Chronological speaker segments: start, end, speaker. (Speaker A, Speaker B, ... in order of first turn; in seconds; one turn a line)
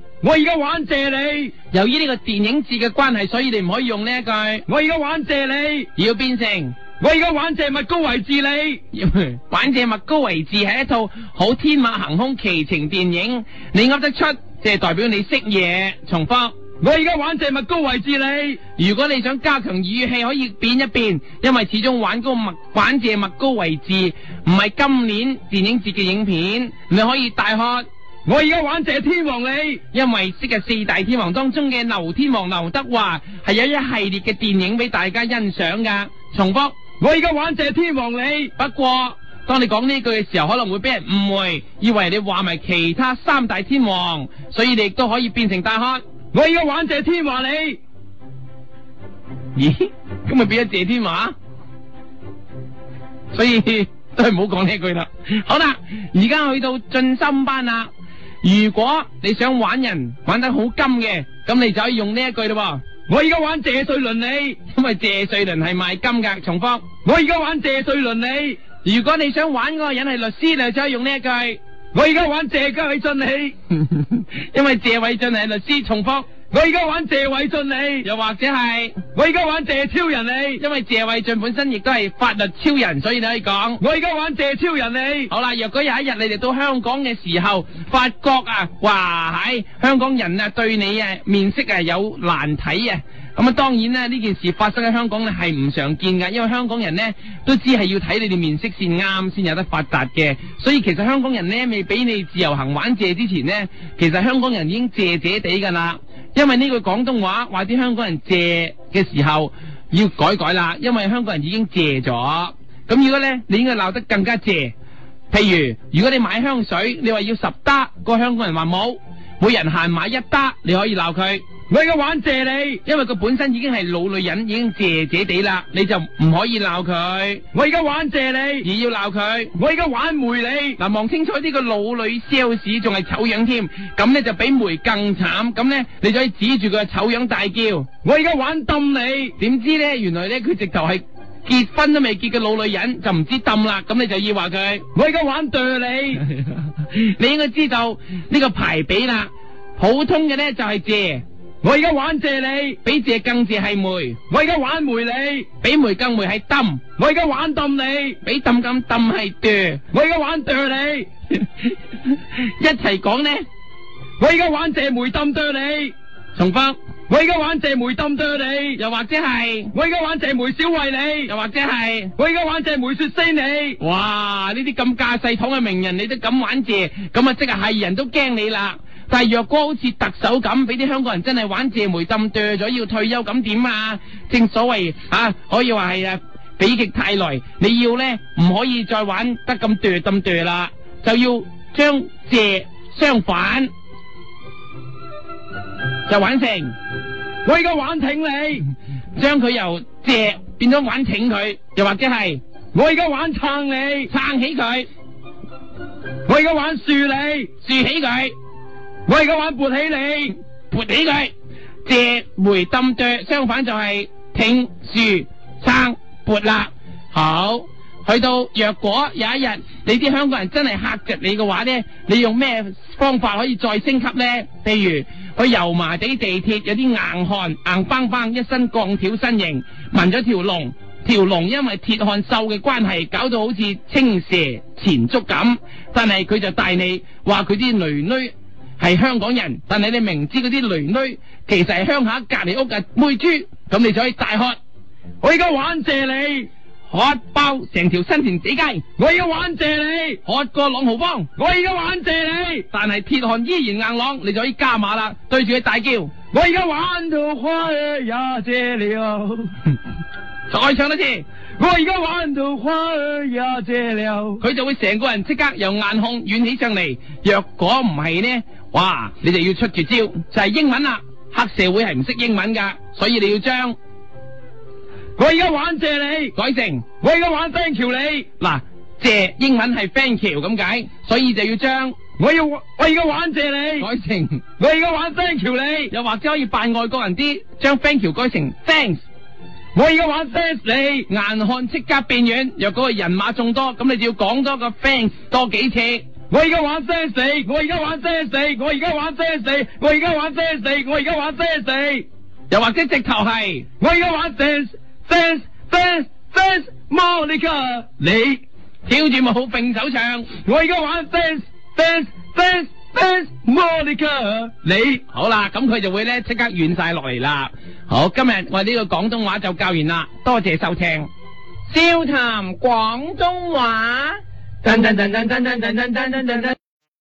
Speaker A: 0.2-1.5
Speaker B: 1.7-4.6
Speaker A: 4.7-5.8
Speaker B: 5.9-6.8
Speaker A: 7.0-8.8
Speaker B: 8.9-16.6
Speaker A: 16.8-18.5
Speaker B: 18.8-27.8
Speaker A: 28.3-29.8
Speaker B: 29.9-36.8
Speaker A: 37.0-38.5
Speaker B: 38.6-46.0
Speaker A: 46.3-47.8
Speaker B: 49.5-51.3
Speaker B: 53.3-57.9
Speaker B: 58.4-62.8
Speaker A: 63.1-64.5
Speaker B: 64.7-66.8
Speaker A: 67.0-68.6
Speaker B: 68.8-71.6
Speaker A: 71.9-73.5
Speaker B: 73.7-76.3
Speaker A: 76.5-78.0
Speaker B: 78.0-79.0
Speaker A: 79.2-80.6
Speaker B: 80.6-83.8
Speaker A: 83.8-85.3
Speaker B: 85.3-114.7
Speaker B: 115.3-121.4
Speaker A: 121.7-122.8
Speaker B: 122.8-127.4
Speaker A: 127.5-128.6
Speaker B: 128.6-129.5
Speaker A: 129.6-130.8
Speaker B: 130.8-137.9
Speaker A: 138.0-139.3
Speaker B: 139.4-144.8
Speaker A: 144.9-146.2
Speaker B: 146.8-151.2
Speaker A: 151.6-152.8
Speaker B: 152.8-154.2
Speaker A: 154.3-155.4
Speaker B: 155.6-156.8
Speaker A: 157.0-158.2
Speaker B: 158.2-159.8
Speaker A: 159.9-161.1
Speaker B: 162.3-163.4
Speaker A: 164.2-165.9
Speaker B: 166.3-166.8
Speaker A: 167.1-168.8
Speaker B: 168.8-169.7
Speaker A: 169.7-171.3
Speaker B: 171.2-172.1
Speaker A: 172.2-173.7
Speaker B: 173.8-193.7
Speaker B: 196.1-196.7
Speaker A: 197.4-198.6
Speaker B: 199.2-202.4
Speaker A: 202.7-204.1
Speaker B: 204.1-204.9
Speaker A: 206.3-207.5
Speaker B: 207.6-208.3
Speaker A: 209.1-210.3
Speaker B: 210.7-211.3
Speaker B: 211.8-244.6
Speaker A: 245.2-246.5
Speaker B: 246.9-248.8
Speaker A: 249.0-250.2
Speaker B: 250.2-251.3
Speaker A: 251.4-252.6
Speaker B: 252.7-256.1
Speaker A: 256.3-259.5
Speaker B: 260.5-261.2
Speaker A: 261.6-264.4
Speaker B: 264.4-273.8
Speaker A: 275.2-276.3
Speaker B: 276.3-276.9
Speaker A: 277.0-278.2
Speaker B: 278.4-282.0
Speaker A: 282.2-283.8
Speaker B: 283.8-284.4
Speaker A: 284.6-285.9
Speaker B: 285.9-289.0
Speaker A: 289.7-291.0
Speaker B: 291.1-296.1
Speaker A: 296.3-302.0
Speaker B: 302.5-303.6
Speaker A: 303.8-308.4
Speaker B: 308.9-310.3
Speaker A: 310.4-315.0
Speaker B: 315.0-321.1
Speaker B: 322.2-324.0